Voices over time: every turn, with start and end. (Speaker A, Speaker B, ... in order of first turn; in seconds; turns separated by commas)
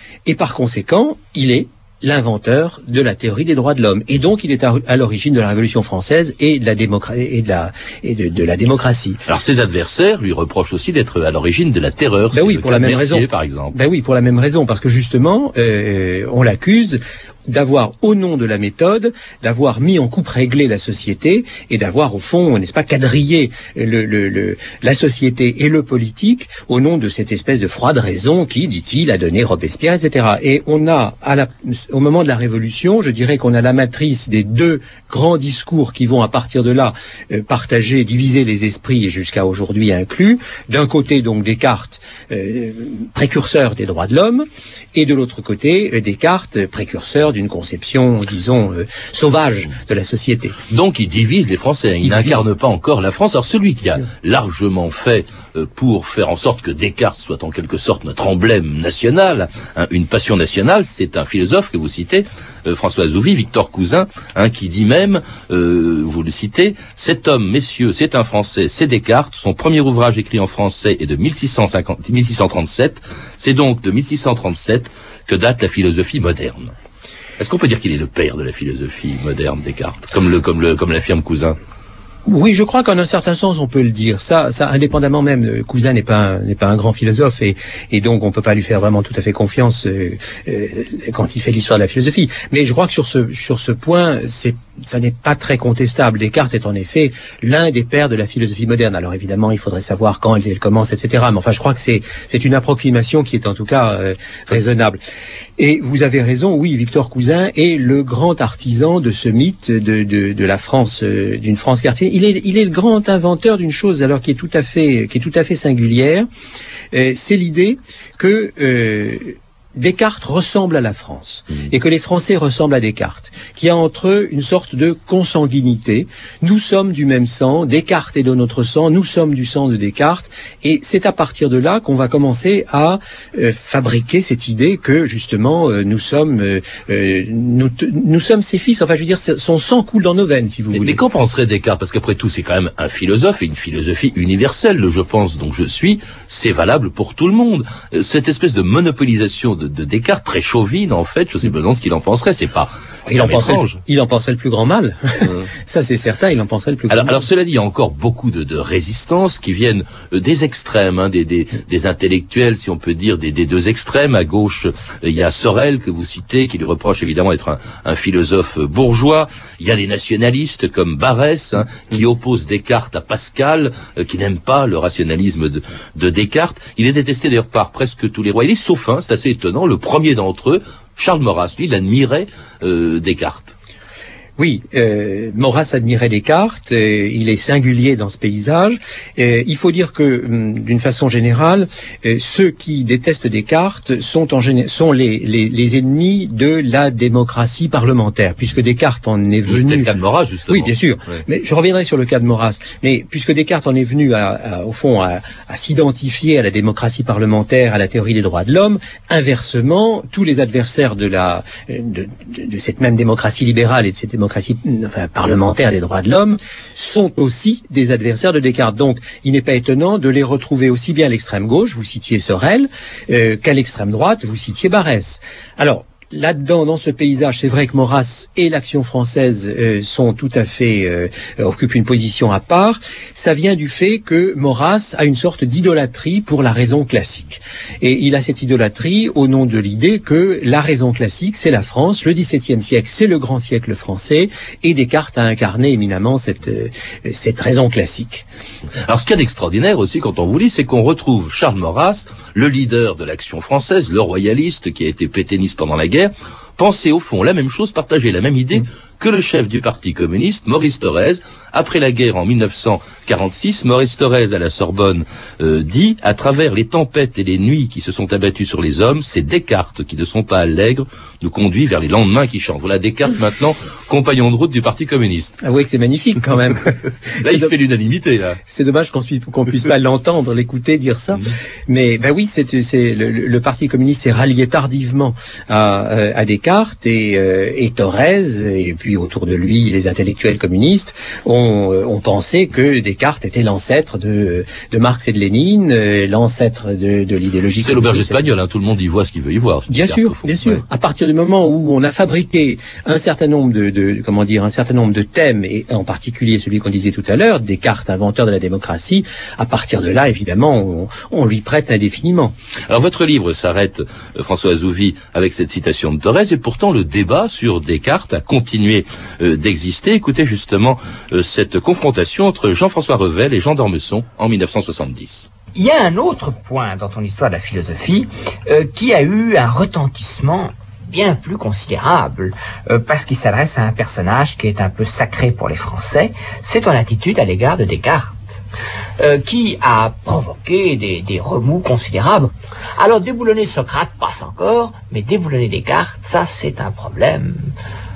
Speaker A: 0.2-9.2, Speaker B: 9.3-13.8, Speaker A: 12.3-50.6, Speaker B: 50.7-76.7, Speaker A: 52.0-52.4, Speaker B: 77.4-81.6, Speaker A: 82.3-105.0, Speaker A: 105.6-116.3, Speaker A: 116.9-141.0, Speaker B: 140.7-153.8, Speaker A: 153.1-157.2, Speaker B: 156.9-183.6, Speaker A: 184.4-199.9, Speaker B: 199.4-201.2, Speaker A: 200.5-248.2, Speaker B: 248.9-275.4, Speaker A: 275.4-277.5, Speaker B: 277.2-278.4, Speaker A: 278.5-298.3, Speaker B: 297.6-300.6, Speaker A: 299.7-312.4, Speaker B: 312.7-325.3, Speaker C: 325.6-338.4, Speaker C: 339.0-347.5